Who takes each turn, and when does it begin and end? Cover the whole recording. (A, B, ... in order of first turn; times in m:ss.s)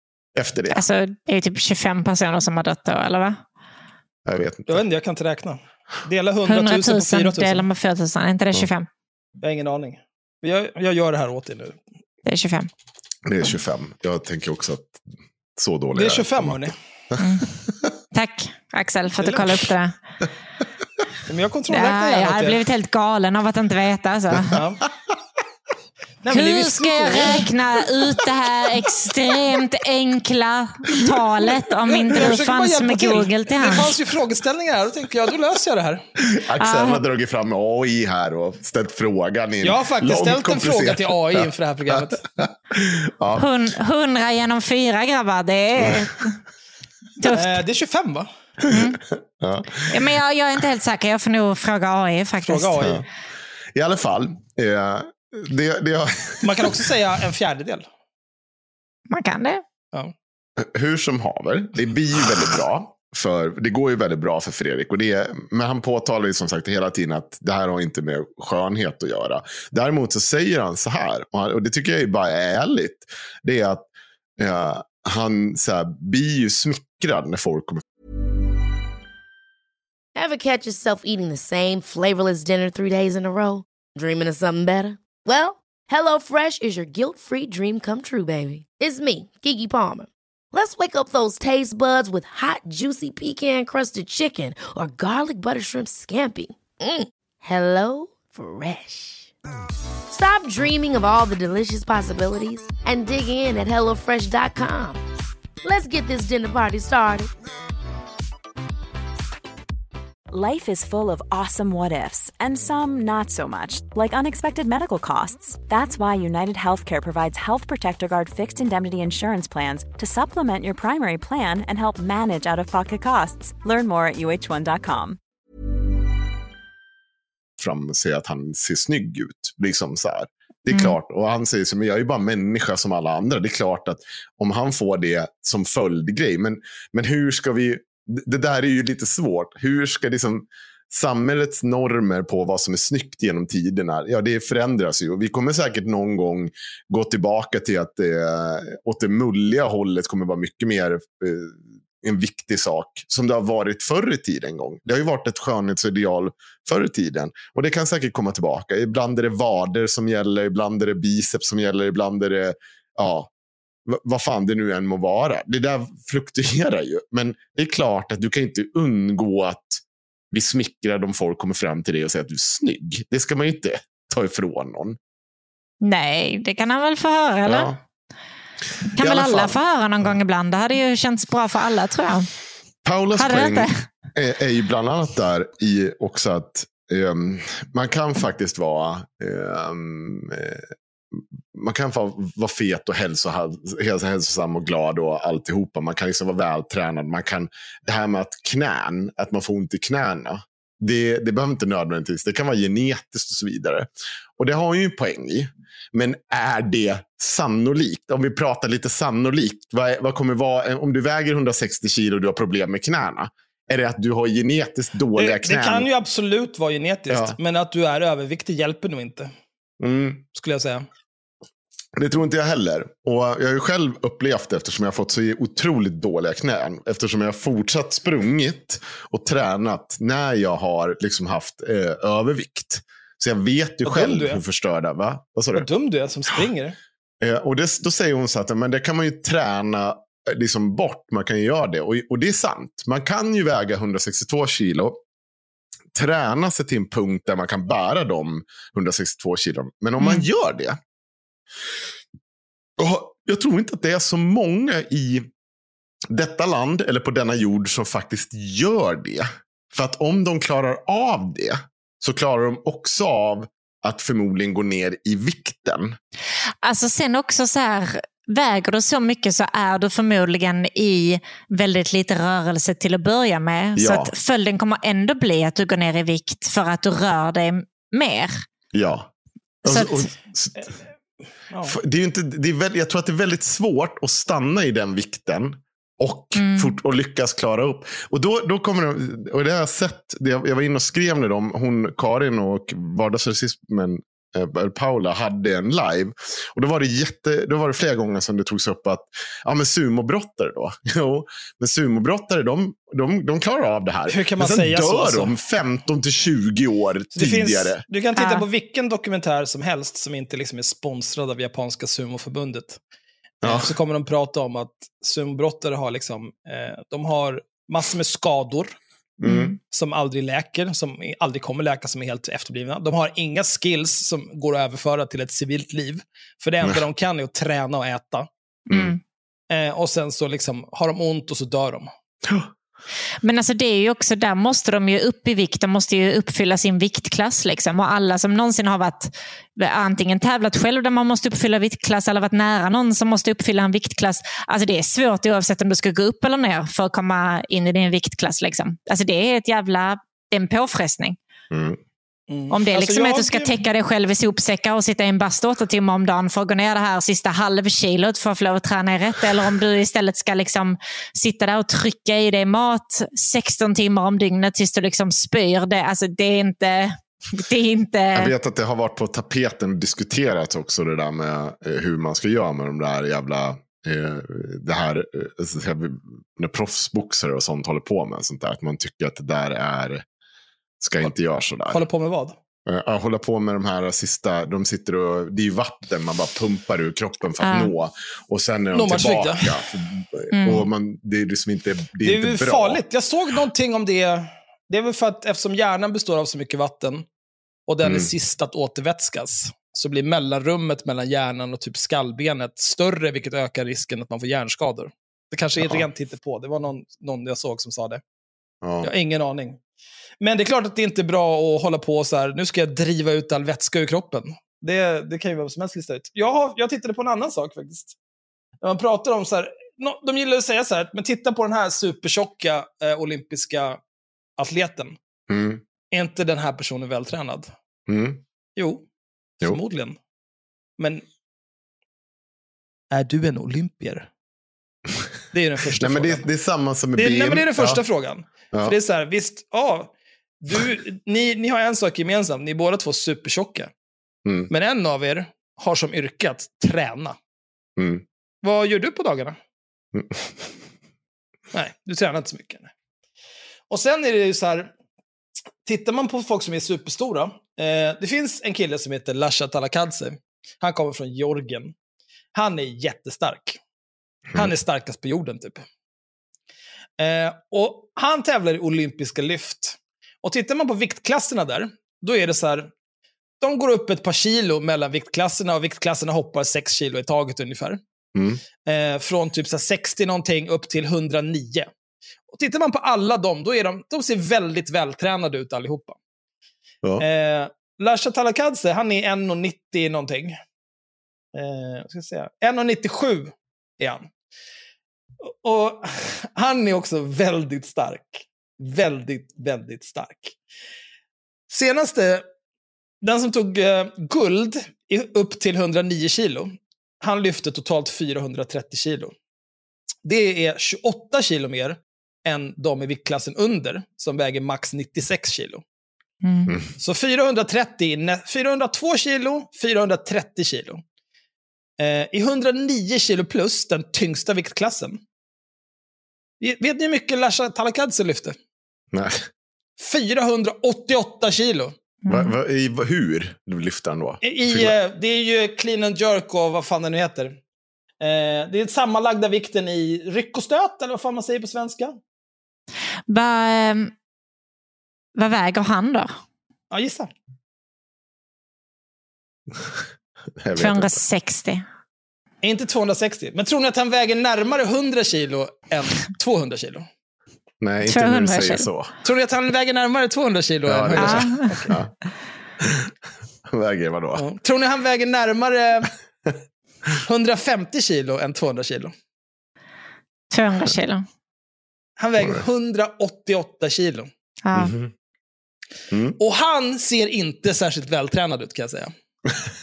0:00.4-0:00.8 A
0:00.7-0:03.4 B
0:04.3-0:04.8 A
0:04.7-0:07.7 C
0:06.5-0:08.9 B
0:09.4-0:11.8 C
0:12.3-0:12.7 B
0:13.3-0:15.0 A
0:15.6-0:17.4 A
0:15.9-0:16.8 C
0:17.2-0:17.5 B
0:18.1-0:20.0 B
0:21.3-0:22.6 C
0:21.7-0:24.6 B
0:24.5-0:24.8 C
0:26.2-0:27.5 C
0:26.3-0:34.0 B
0:31.9-0:36.0 C
0:36.2-0:43.5 A
0:36.6-0:37.0 B
0:39.6-0:42.2 C
0:43.4-0:46.4 B
0:45.8-0:46.1 A
0:47.2-0:47.6 B
0:47.3-0:48.3 C
0:48.6-0:50.1 A
0:48.7-0:49.0 B
0:49.9-0:52.9 B
0:52.4-0:53.1 C
0:53.8-0:56.8 A
0:56.4-0:57.9 C
0:59.1-0:59.6 B
1:00.6-1:17.8 A
1:20.2-1:39.3 D
1:40.1-1:45.0 D
1:45.6-1:47.3 D
1:50.3-2:05.2 E
2:07.6-2:43.3 A
2:43.9-2:55.0 A
2:55.8-2:57.7 B
2:57.5-2:57.8 A
2:59.0-2:59.6 A
2:59.0-3:02.3 B
3:02.8-3:35.9 A
3:03.2-3:03.8 B
3:35.2-3:39.3 C
3:37.1-3:37.4 A
3:39.8-3:40.2 A
3:40.4-3:40.8 C
3:42.0-3:55.7 A
3:53.8-3:54.4 C
3:55.5-3:56.8 C
3:57.2-4:05.0 A
4:05.9-4:10.8 A
4:10.0-4:10.3 B
4:12.8-4:15.3 A
4:16.1-4:26.0 A
4:26.6-4:38.3 B
4:33.8-4:34.1 A
4:38.7-4:39.1 A
4:39.6-4:40.7 A
4:39.7-4:40.1 B
4:41.5-4:41.8 C
4:41.6-5:07.8 A
4:46.4-4:46.7 B
5:04.1-5:05.3 C
5:07.1-5:12.8 C
5:08.2-5:08.4 B
5:13.4-5:13.7 A
5:13.4-5:18.8 C
5:19.2-5:19.6 A
5:19.2-5:19.6 B
5:19.7-5:28.3 C
5:28.7-5:29.0 A
5:28.7-5:29.0 B
5:29.5-5:31.9 C
5:33.2-5:51.2 B
5:51.5-5:51.8 A
5:52.3-5:53.5 C
5:52.5-6:08.3 B
6:08.1-6:20.0 A
6:20.8-6:21.8 A
6:21.7-6:22.4 C
6:22.7-6:32.8 A
6:27.4-6:27.7 B
6:28.7-6:29.5 C
6:30.3-6:30.7 B
6:32.0-6:37.1 C
6:37.7-6:48.0 C
6:37.8-6:38.1 A
6:48.6-6:48.9 A
6:48.8-6:49.6 C
6:50.2-6:58.0 C
6:58.6-7:03.8 C
7:04.4-7:05.0 C
7:05.3-7:05.6 A
7:05.9-7:07.5 C
7:07.9-7:08.2 A
7:08.6-7:08.9 C
7:09.4-7:10.0 C
7:10.8-7:11.0 C
7:12.9-7:14.1 C
7:15.3-7:16.3 C
7:15.8-7:17.8 A
7:17.0-7:23.7 C
7:24.2-7:24.5 A
7:24.5-7:27.2 C
7:27.8-7:28.0 A
7:28.4-7:29.4 C
7:29.9-7:30.4 A
7:31.5-7:32.7 C
7:33.7-7:34.7 C
7:35.6-7:41.8 C
7:42.4-7:43.6 C
7:44.4-7:45.6 C
7:47.0-7:52.7 C
7:53.4-7:57.8 C
7:58.2-7:58.4 A
7:58.6-8:01.7 C
8:02.3-8:06.0 C
8:07.0-8:10.4 C
8:11.3-8:14.1 C
8:15.2-8:20.4 C
8:21.5-8:22.2 C
8:23.0-8:29.1 C
8:30.0-8:35.6 C
8:36.2-8:36.5 B
8:36.8-8:40.8 C
8:41.8-8:45.0 C
8:46.4-8:48.4 C
8:48.9-8:49.3 A
8:49.8-8:51.8 C
8:52.1-8:52.3 B
8:52.1-8:54.8 A
8:54.2-8:57.4 C
8:58.0-9:02.0 C
9:03.1-9:03.9 B
9:05.2-9:06.2 B
9:06.7-9:07.1 C
9:10.4-9:11.0 A
9:10.6-9:11.6 B
9:12.4-9:16.9 C
9:17.6-9:18.9 A
9:17.8-9:18.7 B
9:19.0-9:21.7 C
9:20.7-9:21.9 A
9:21.0-9:21.7 B
9:22.6-9:22.9 A
9:23.5-9:24.3 A
9:24.2-9:25.9 C
9:27.0-9:28.9 C
9:30.3-9:31.0 B
9:32.0-9:34.1 C
9:34.4-9:34.7 B
9:34.6-9:34.9 A
9:35.9-9:36.2 A
9:36.2-9:38.9 C